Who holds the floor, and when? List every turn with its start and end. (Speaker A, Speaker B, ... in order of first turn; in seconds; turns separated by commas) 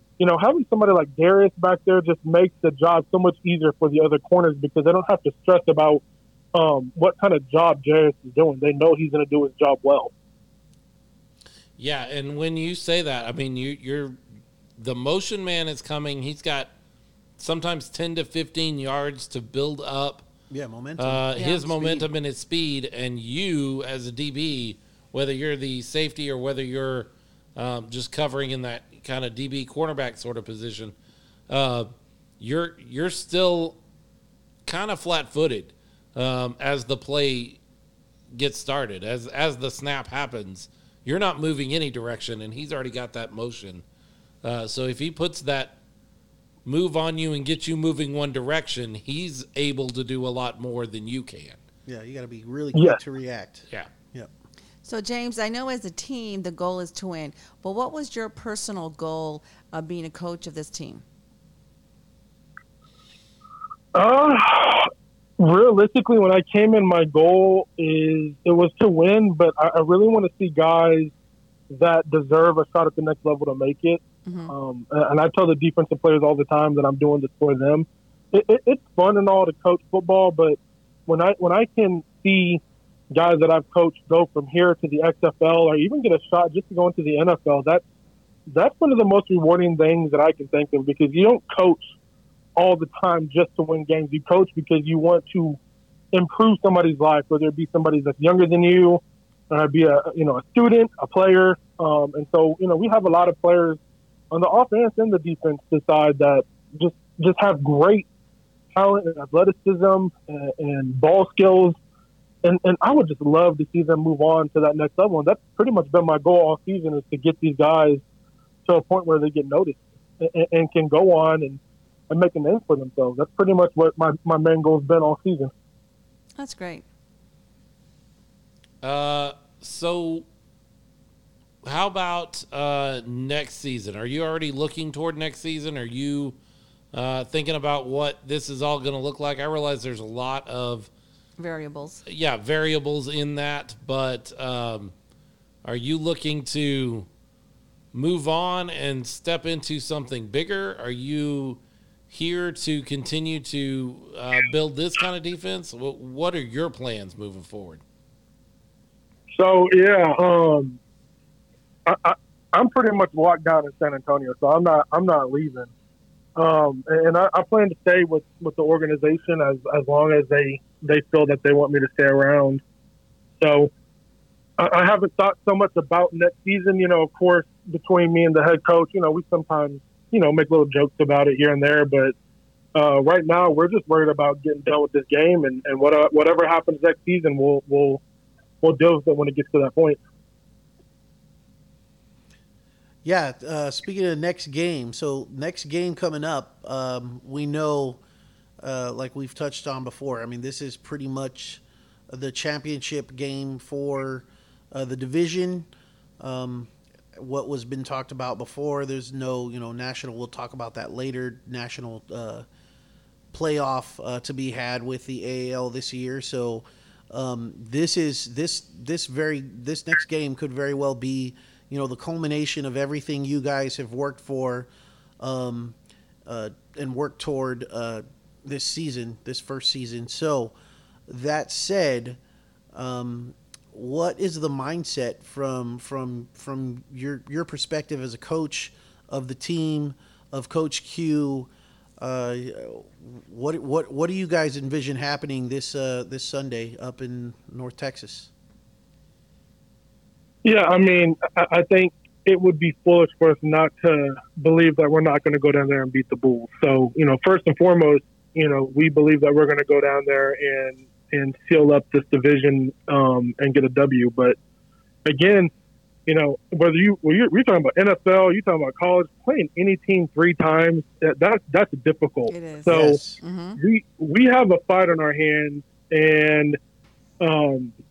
Speaker A: 0.2-6.0, Speaker A: 6.5-10.1, Speaker B: 11.8-14.2, Speaker B: 14.8-16.7, Speaker B: 17.4-20.3, Speaker C: 20.5-22.1, Speaker B: 21.0-30.9, Speaker D: 21.4-21.6, Speaker B: 31.5-31.9, Speaker B: 32.4-33.8, Speaker B: 34.6-37.6, Speaker B: 38.3-43.8, Speaker B: 44.4-45.8, Speaker B: 46.6-51.6, Speaker C: 51.9-54.3, Speaker D: 54.8-61.0, Speaker A: 63.9-71.1, Speaker A: 71.7-87.8, Speaker D: 74.2-74.5, Speaker A: 88.5-91.9, Speaker A: 92.5-95.6, Speaker A: 96.1-103.8, Speaker A: 104.3-108.1, Speaker A: 108.7-111.8, Speaker A: 112.4-118.0, Speaker A: 118.7-125.5, Speaker D: 126.4-126.8, Speaker B: 128.8-130.2, Speaker B: 131.6-136.4, Speaker B: 136.9-140.9, Speaker D: 141.4-142.0, Speaker B: 142.1-144.9, Speaker B: 145.6-147.1, Speaker B: 147.9-157.8, Speaker A: 159.3-160.8, Speaker A: 161.8-165.7, Speaker A: 166.3-172.6, Speaker A: 173.4-173.7, Speaker A: 174.6-182.1, Speaker A: 182.7-188.0, Speaker A: 188.6-190.0, Speaker C: 193.0-198.0, Speaker C: 198.6-205.7, Speaker C: 206.2-212.4, Speaker C: 213.3-224.7, Speaker C: 225.2-230.5, Speaker C: 231.1-232.2, Speaker C: 232.7-248.3, Speaker A: 250.4-264.4, Speaker A: 265.0-265.5, Speaker A: 266.1-273.0, Speaker D: 272.3-273.6, Speaker C: 272.7-273.2, Speaker A: 273.6-276.6, Speaker A: 277.2-277.7